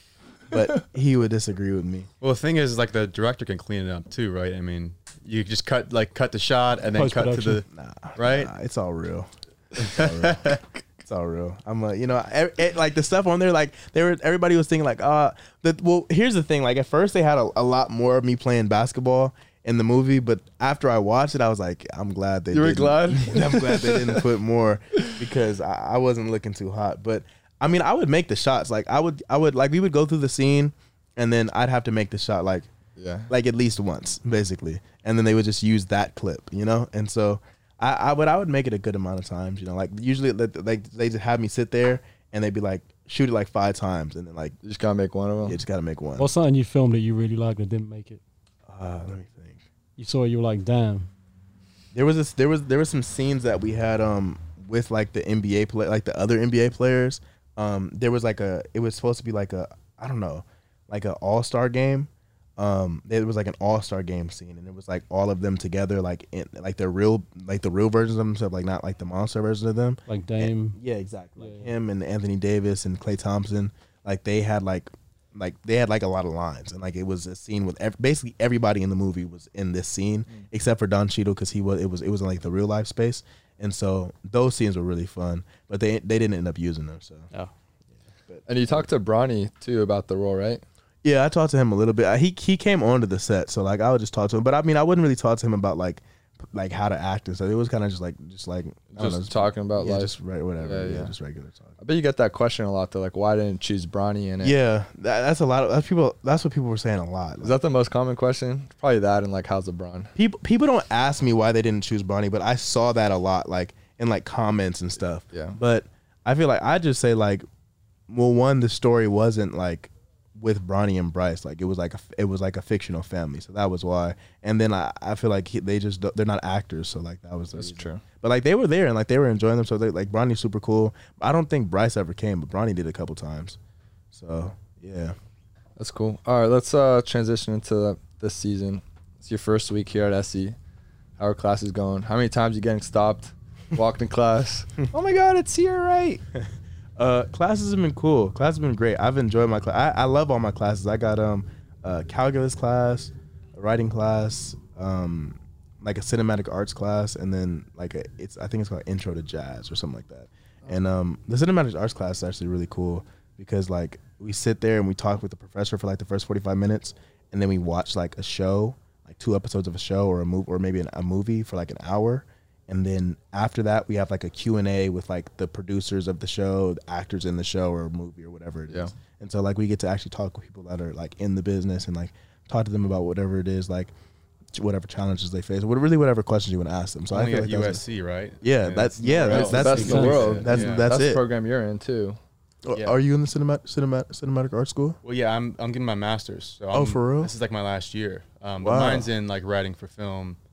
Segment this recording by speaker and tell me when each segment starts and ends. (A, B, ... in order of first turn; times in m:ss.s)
0:00.5-0:02.1 A
0:02.2-0:08.5 B
0:06.9-0:07.6 C
0:07.7-0:32.7 A
0:09.8-0:10.6 B
0:22.5-0:24.2 D
0:33.0-0:33.3 D
0:33.3-0:44.6 A
0:44.6-0:45.6 D
0:45.4-0:46.3 A
0:46.2-0:48.2 C
0:48.7-0:49.6 A
0:50.0-0:51.1 C
0:51.9-1:27.3 A
1:10.1-1:10.8 C
1:11.4-1:11.7 C
1:28.3-1:28.8 A
1:28.5-1:30.6 D
1:31.0-1:41.8 A
1:38.9-1:41.1 D
1:41.8-1:44.6 D
1:44.4-1:47.6 A
1:47.4-1:50.1 D
1:50.2-1:57.4 A
1:55.3-1:55.6 D
1:58.1-2:13.6 A
2:07.5-2:08.0 D
2:14.1-2:15.2 A
2:15.8-2:20.6 D
2:21.2-2:26.2 D
2:27.0-3:03.9 A
3:04.5-3:07.8 A
3:07.1-3:10.9 B
3:08.4-3:11.2 A
3:09.2-3:12.2 D
3:09.6-3:10.4 C
3:12.6-3:15.0 A
3:12.7-3:13.0 B
3:15.0-3:20.4 B
3:16.7-3:17.3 A
3:18.6-3:19.1 A